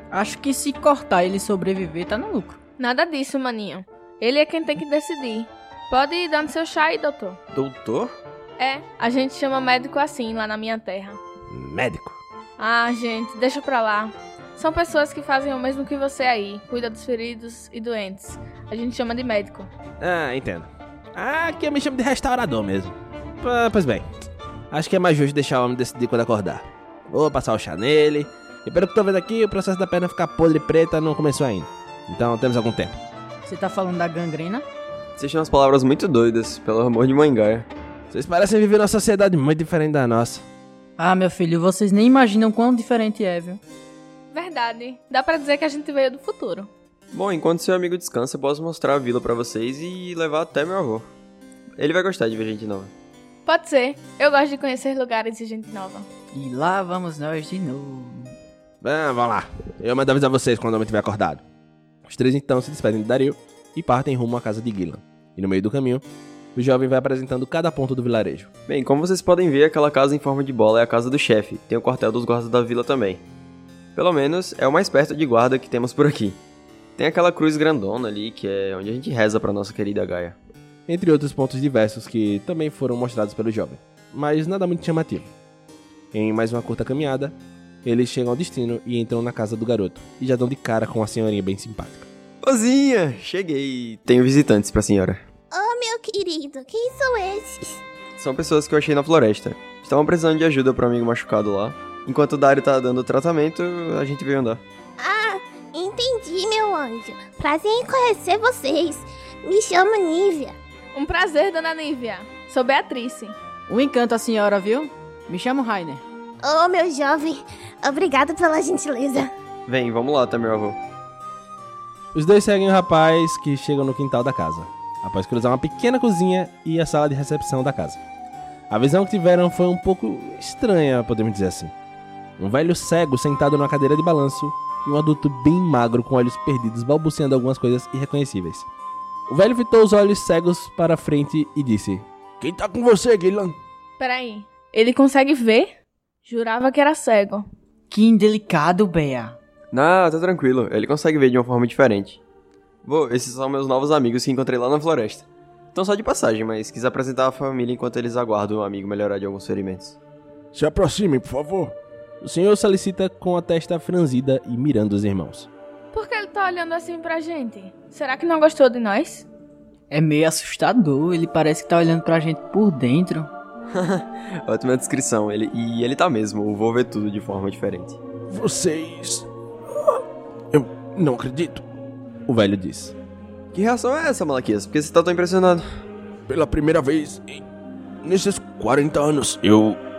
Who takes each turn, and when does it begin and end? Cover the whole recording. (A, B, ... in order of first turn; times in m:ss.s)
0:00.1-0:02.6 A
0:02.8-0:07.4 B
0:07.5-0:08.1 C
0:08.6-0:11.2 B
0:11.5-0:12.2 D
0:12.6-0:19.7 B
0:20.0-0:24.1 D
0:24.7-0:33.0 D
0:33.4-0:34.6 A
0:35.2-0:37.7 C
0:38.1-0:40.4 D
0:41.0-0:43.6 A
0:44.3-0:46.7 B
0:47.1-0:51.1 C
0:51.8-0:52.9 C
0:53.4-0:56.1 B
0:56.3-0:58.3 A
0:58.8-1:01.4 D
1:02.0-1:06.0 D
1:06.5-1:08.5 D
1:08.7-1:13.2 C
1:14.0-1:16.4 C
1:17.0-1:20.4 C
1:20.9-1:25.3 D
1:26.1-1:32.1 D
1:32.4-1:35.2 C
1:35.5-1:37.8 E
1:38.2-1:44.6 C
1:45.0-1:50.5 E
1:50.9-1:53.4 B
1:53.7-1:56.0 A
1:56.4-1:59.3 E
1:59.7-2:00.8 C
2:02.1-2:08.0 D
2:08.7-2:11.7 D
2:12.4-2:18.7 D
2:19.3-2:23.6 D
2:24.0-2:25.7 B
2:26.2-2:27.5 B
2:27.9-2:29.4 A
2:29.7-2:32.2 C
2:32.8-2:40.0 C
2:40.5-2:45.5 D
2:45.9-2:49.3 B
2:49.9-2:53.3 A
2:53.7-2:58.0 C
2:58.3-2:59.3 D
3:00.5-3:01.6 D
3:02.3-3:02.9 D
3:03.5-3:05.6 C
3:06.3-3:07.4 D
3:08.0-3:09.8 D